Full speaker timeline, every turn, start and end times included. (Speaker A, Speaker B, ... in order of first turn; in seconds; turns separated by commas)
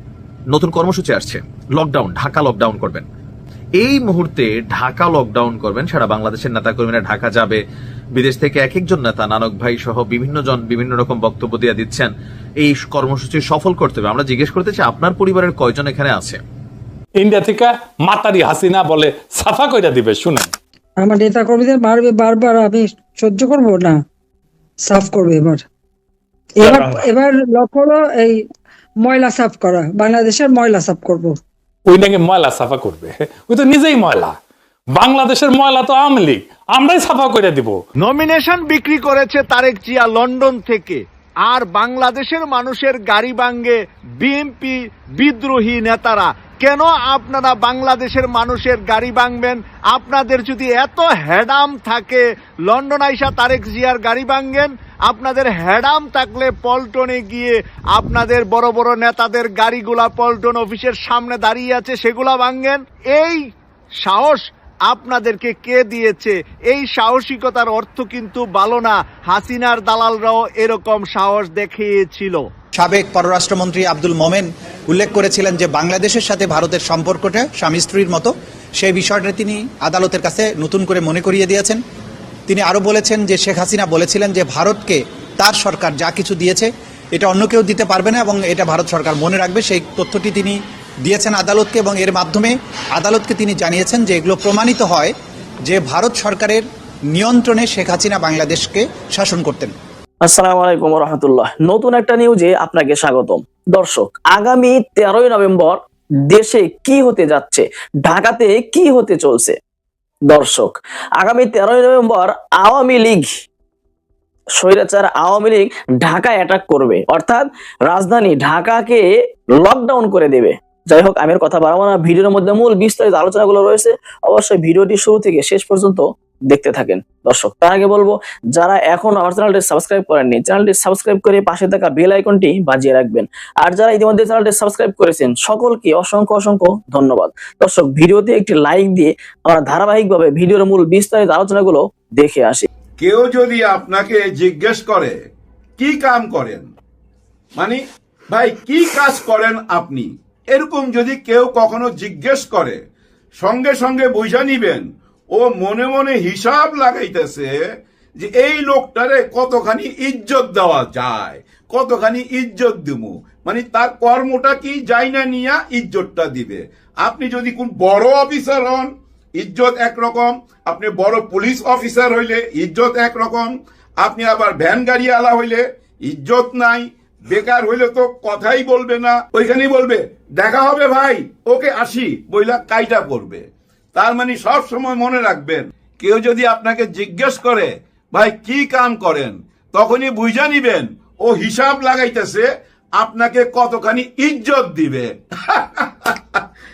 Speaker A: 0.5-3.1, Speaker A: 3.8-7.6, Speaker A: 8.2-16.4, Speaker B: 17.2-20.5, Speaker C: 21.0-24.0, Speaker C: 24.8-25.6, Speaker C: 26.6-28.4, Speaker C: 29.0-31.4, Speaker B: 31.9-34.4, Speaker B: 34.9-37.8, Speaker D: 38.0-63.5, Speaker D: 64.0-72.5, Speaker E: 72.8-81.8, Speaker E: 82.5-95.1, Speaker E: 95.7-99.7, Speaker F: 100.2-109.5, Speaker F: 110.3-113.4, Speaker F: 114.5-142.7, Speaker G: 143.0-145.1, Speaker G: 145.8-146.7, Speaker G: 147.6-152.8, Speaker G: 153.4-157.5, Speaker G: 158.2-183.4, Speaker G: 183.9-192.5, Speaker G: 193.0-196.4